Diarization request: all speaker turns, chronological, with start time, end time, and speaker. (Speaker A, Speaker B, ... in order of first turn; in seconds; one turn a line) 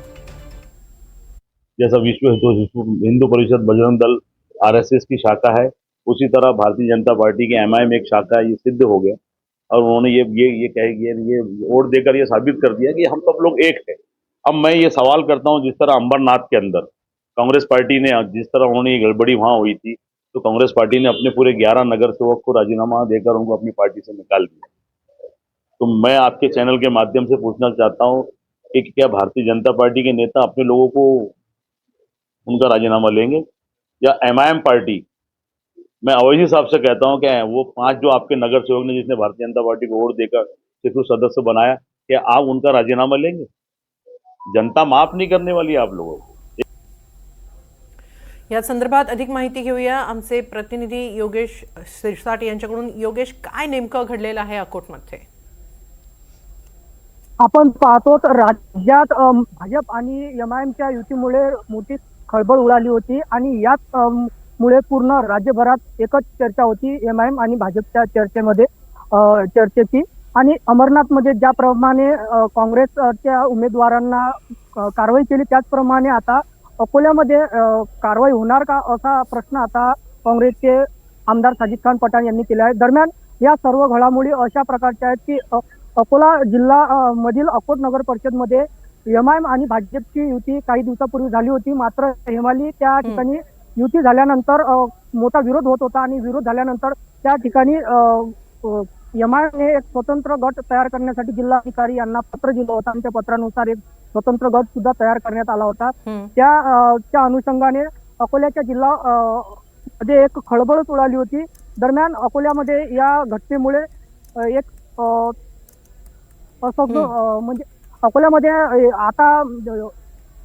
Speaker A: 1.8-9.2
Speaker A: 9.7-24.7
Speaker A: 25.8-31.3
Speaker A: 32.5-33.5
Speaker A: 34.0-35.0
Speaker A: 36.0-43.5
Speaker A: 44.5-46.3
Speaker B: 48.5-55.2
Speaker C: 57.4-113.8
Speaker B: 106.0-106.3
Speaker C: 114.4-115.3
Speaker C: 116.6-119.9
Speaker B: 116.9-117.1